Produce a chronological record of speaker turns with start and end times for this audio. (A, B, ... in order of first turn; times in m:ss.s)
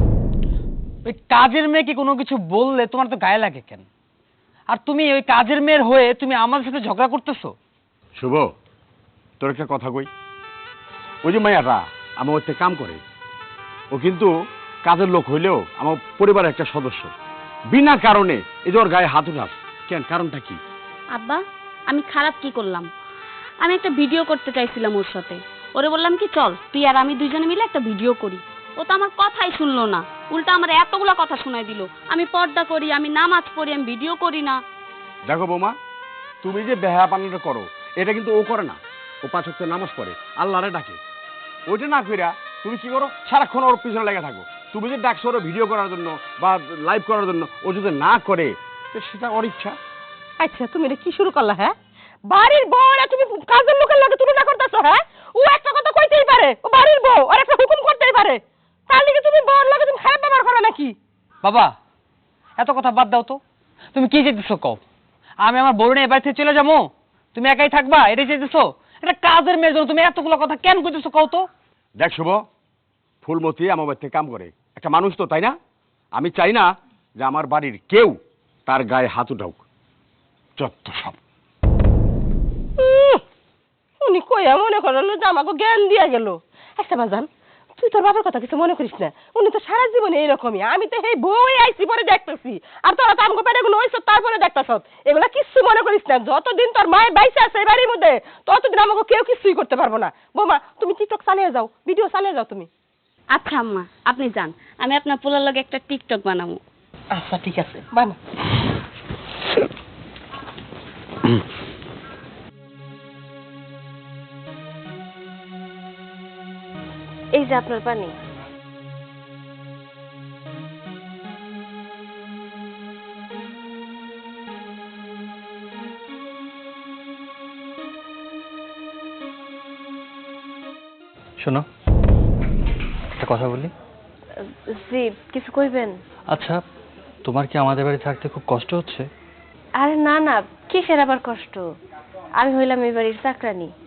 0:01.0-0:03.9 A
0:04.7-0:07.6 A
0:08.2-0:08.5 B
0:09.4-0:10.1 B
0:11.2-0:13.0 B
0:13.9-0:14.3 B
0:14.8-0:17.1 B
0:17.7-0:20.6 B
0:21.1-0:22.9 C
0:23.6-0:34.6 C
0:35.2-0:35.8 B
0:36.4-0:41.0 B
0:41.7-0:49.8 B
0:50.4-0:51.8 D
0:52.3-1:01.0 D
1:01.4-1:01.7 A
1:02.6-1:03.4 A
1:03.9-1:04.8 A
1:05.4-1:11.5 A
1:12.0-1:12.5 B
1:13.2-1:15.6 B
1:16.1-1:19.6 B
1:20.6-1:21.2 B
1:22.8-1:23.2 D
1:24.0-1:42.7 D
1:43.3-1:46.6 C
1:47.1-1:48.2 D
1:57.4-1:58.2 E
2:11.4-2:11.7 F
2:13.2-2:13.7 F
2:14.7-2:16.0 E
2:16.3-2:16.6 F
2:17.2-2:19.1 F
2:19.8-2:21.6 E
2:22.4-2:23.7 E